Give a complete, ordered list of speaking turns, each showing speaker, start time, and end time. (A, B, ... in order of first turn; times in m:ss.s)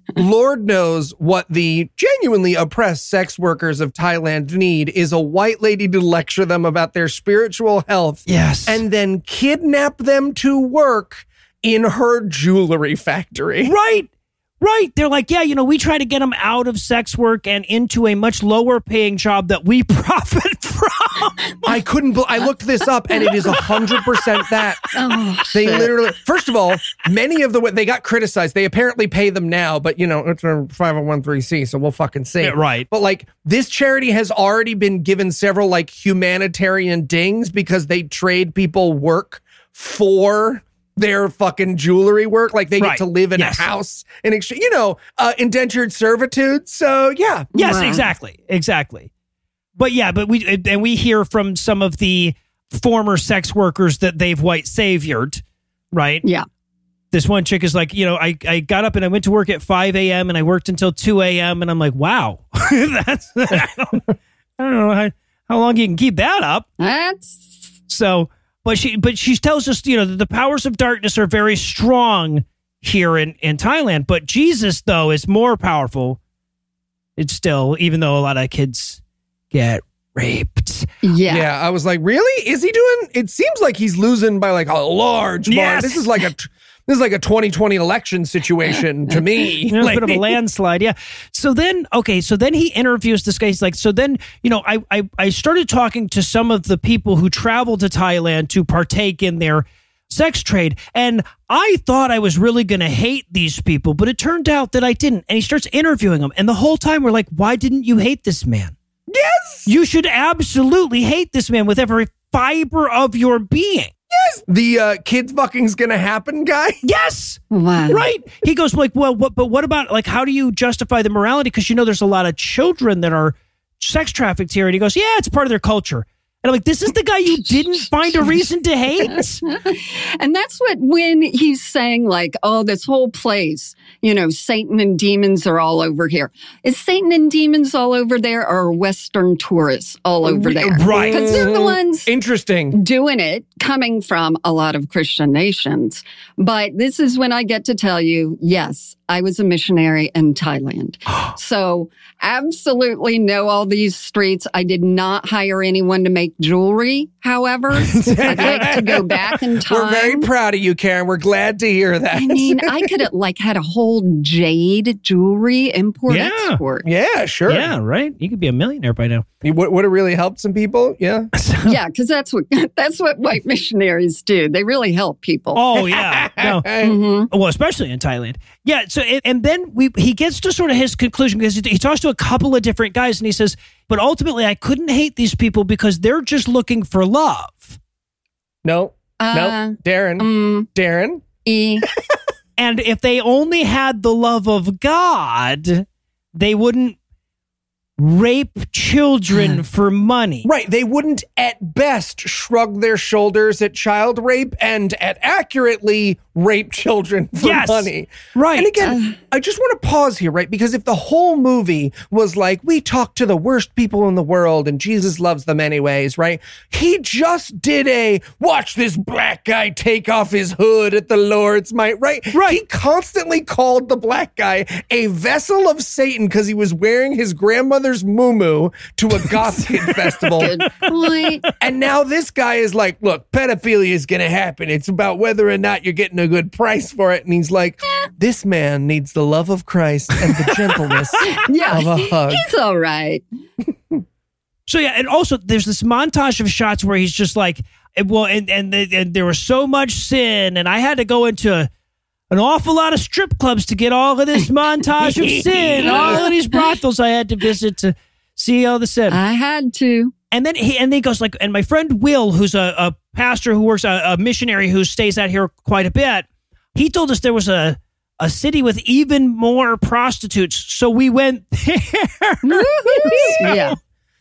0:00.1-0:13.7 A
0:08.3-0:08.8 B
0:13.6-0:14.1 B
0:14.6-0:21.7 B
0:21.6-0:24.8 A
0:24.9-0:25.9 C
0:25.5-0:47.5 A
0:32.4-0:32.9 B
0:42.8-0:43.6 B
0:47.5-0:49.1 B
0:47.6-0:48.1 C
0:49.8-0:56.2 B
0:57.1-1:04.1 B
1:04.6-1:06.7 B
1:06.8-1:07.6 C
1:07.9-1:16.2 B
1:17.2-1:19.0 B
1:19.5-1:21.0 B
1:21.0-1:21.5 C
1:21.3-1:30.4 A
1:25.5-1:26.2 B
1:29.7-1:48.7 B
1:49.1-1:49.7 A
1:49.7-1:53.9 B
1:54.1-1:56.8 A
1:56.8-2:09.4 B
1:57.5-1:58.0 C
2:07.4-2:08.2 C
2:09.0-2:22.1 C
2:20.4-2:21.4 B
2:20.8-2:22.8 A
2:22.7-2:40.3 C
2:37.8-2:39.3 B
2:38.1-2:39.1 A
2:39.7-2:43.1 A
2:42.1-2:46.8 C
2:46.1-2:46.6 B
2:46.8-2:47.7 A
2:47.5-2:49.2 B
2:49.4-2:51.3 A
2:51.3-2:51.8 B
2:51.6-2:55.6 C
2:55.5-3:07.8 B
2:55.8-2:57.0 A
2:56.8-2:57.3 C
3:08.6-3:11.2 A
3:09.2-3:10.7 C
3:11.4-3:11.8 C
3:12.6-3:17.0 B
3:18.0-3:20.5 B
3:20.4-3:50.6 A
3:27.4-3:28.7 B
3:28.8-3:29.2 C
3:42.3-3:42.6 B
3:49.3-3:50.4 B
3:50.4-3:51.4 C
3:51.6-4:02.5 A
4:00.2-4:01.2 B
4:01.2-4:03.2 C
4:04.7-4:11.7 B
4:12.3-4:19.2 B
4:15.0-4:16.2 A
4:15.8-4:16.6 C
4:19.1-4:20.1 C
4:20.3-4:33.7 B
4:32.4-4:33.8 C
4:33.0-4:33.7 A